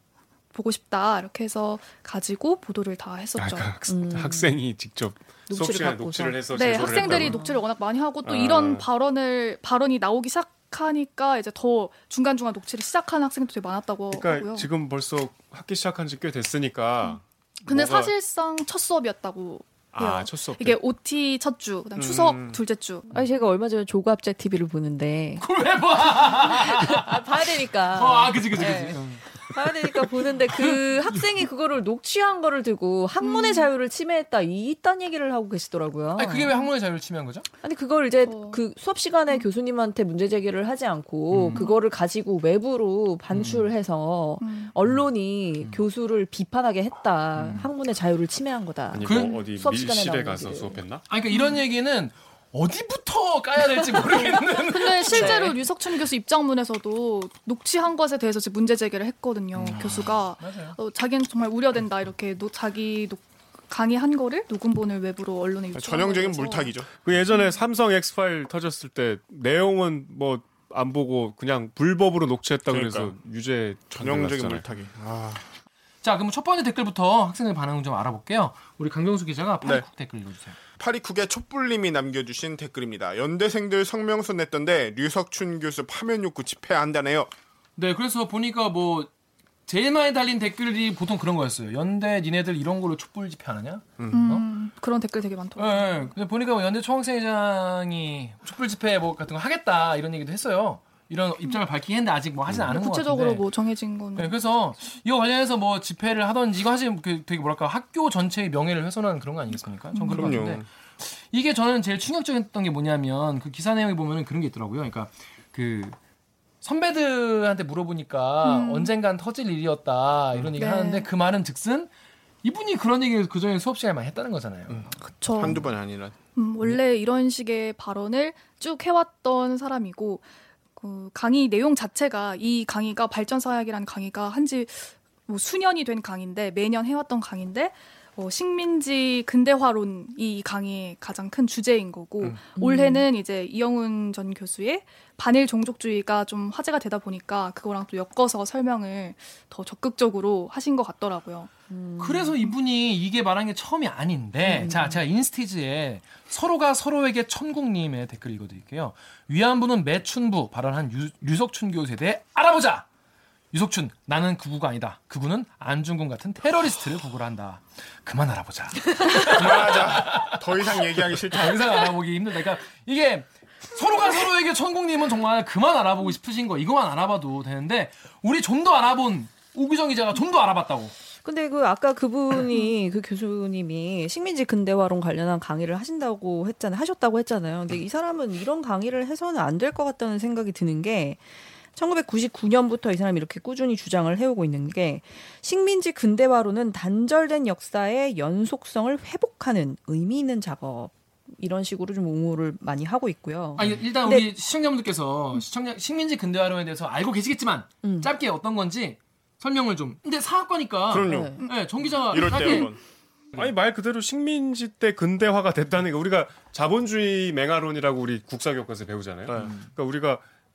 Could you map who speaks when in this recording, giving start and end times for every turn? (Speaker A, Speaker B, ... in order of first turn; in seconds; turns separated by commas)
Speaker A: 0.5-3.7, Speaker B: 3.4-7.4, Speaker C: 3.9-4.6, Speaker C: 5.5-7.4, Speaker A: 6.5-14.7, Speaker B: 8.2-8.8, Speaker B: 14.1-18.1, Speaker A: 17.7-23.1, Speaker B: 19.9-20.8, Speaker D: 22.0-22.6, Speaker C: 23.1-25.4, Speaker E: 25.4-27.2, Speaker C: 26.3-36.5, Speaker E: 27.8-31.1, Speaker A: 33.2-33.7, Speaker E: 36.1-37.5, Speaker C: 37.6-50.8, Speaker A: 38.2-38.6, Speaker E: 41.3-41.7, Speaker E: 43.3-43.7, Speaker A: 44.4-44.7, Speaker E: 45.6-45.9, Speaker E: 47.4-47.7, Speaker B: 48.9-51.0, Speaker E: 49.0-49.3, Speaker E: 51.1-55.4, Speaker A: 54.6-66.7, Speaker C: 55.1-55.6, Speaker E: 59.6-60.8, Speaker D: 65.7-66.9, Speaker B: 66.9-74.7, Speaker D: 72.7-73.1, Speaker D: 73.9-75.4, Speaker E: 76.0-80.5, Speaker D: 80.8-87.3, Speaker E: 87.8-89.1, Speaker E: 89.7-94.5, Speaker D: 94.0-94.3, Speaker A: 94.1-96.1, Speaker E: 95.6-103.5, Speaker A: 102.7-104.4, Speaker E: 104.2-116.0, Speaker A: 109.9-110.4, Speaker D: 110.1-110.6, Speaker E: 116.6-121.9, Speaker A: 118.4-118.9, Speaker A: 120.6-121.1, Speaker E: 122.4-125.6, Speaker A: 125.2-125.7, Speaker D: 125.3-126.2, Speaker A: 126.3-130.2, Speaker A: 130.8-151.5, Speaker C: 142.6-143.1, Speaker C: 151.7-152.4, Speaker E: 152.0-162.8, Speaker C: 154.4-155.0, Speaker E: 163.5-180.9, Speaker D: 169.1-171.9, Speaker C: 181.2-191.2, Speaker C: 191.7-204.3, Speaker E: 203.6-212.7, Speaker C: 207.8-208.1, Speaker D: 210.9-212.8, Speaker C: 211.1-211.4, Speaker B: 213.3-220.2, Speaker D: 219.3-219.5